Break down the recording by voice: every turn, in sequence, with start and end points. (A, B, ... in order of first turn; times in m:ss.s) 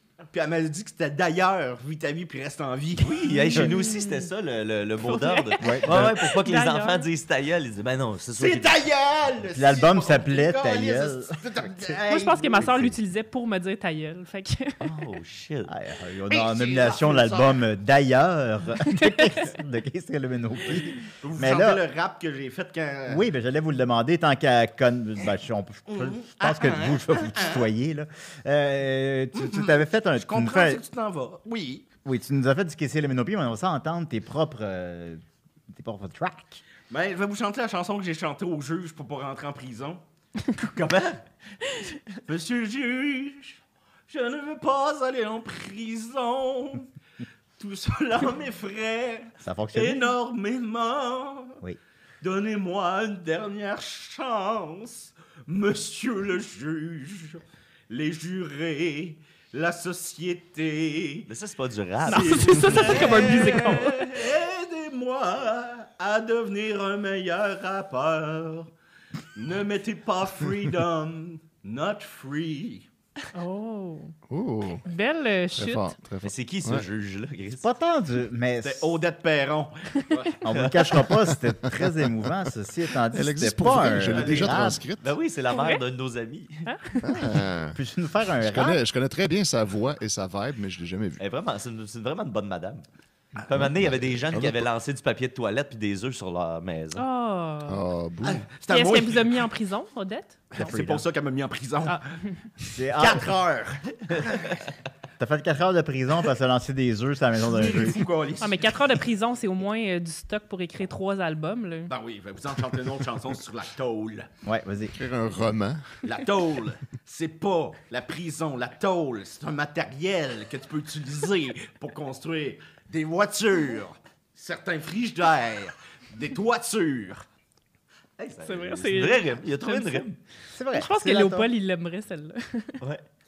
0:00.2-0:03.1 A
0:03.0-0:08.8 B
0:03.4-0:04.3 C
0:05.0-0:07.1 C
0:05.6-0:06.2 D
0:08.4-0:12.8 A
0:09.5-0:11.9 D
0:12.1-0:14.9 C
0:14.8-0:15.7 B
0:15.6-0:21.8 D
0:16.3-0:17.6 A
0:21.1-0:23.2 A
0:23.1-0:30.8 D
0:25.9-0:27.7 A
0:29.4-0:31.9 A
0:32.0-0:36.6 D
0:36.9-0:40.0 A
0:40.5-0:41.2 A
0:42.2-0:46.9 A
0:47.6-0:51.6 A
0:49.4-0:50.1 D
0:52.2-1:01.3 A
1:01.3-1:03.3 B
1:02.0-1:08.7 A
1:02.1-1:04.2 C
1:09.3-1:12.9 A
1:13.3-1:14.1 C
1:14.3-1:14.8 E
1:14.8-1:15.9 C
1:15.5-1:16.8 E
1:16.2-1:17.7 B
1:17.6-1:18.9 D
1:18.6-1:20.4 A
1:20.4-1:24.8 D
1:20.5-1:21.1 B
1:23.1-1:25.1 E
1:24.0-1:24.6 A
1:24.1-1:26.7 B
1:25.5-1:25.8 C
1:26.6-1:27.3 C
1:27.0-1:27.8 E
1:27.7-1:28.8 D
1:28.4-1:31.2 E
1:31.2-1:32.8 B
1:33.4-1:37.0 B
1:33.5-1:34.6 E
1:36.9-1:37.8 C
1:37.7-1:38.4 E
1:38.2-1:39.4 A
1:38.7-1:40.8 C
1:40.5-1:42.0 A
1:40.6-1:41.0 D
1:42.7-1:43.3 D
1:42.9-1:44.6 A
1:45.2-1:48.0 D
1:47.4-1:48.9 A
1:48.4-1:51.9 C
1:51.9-1:54.3 A
1:54.4-1:55.0 D
1:55.0-1:56.0 E
1:56.0-2:07.2 A
2:08.2-2:10.2 B
2:08.4-2:10.0 C
2:10.5-2:11.5 D
2:10.7-2:12.8 C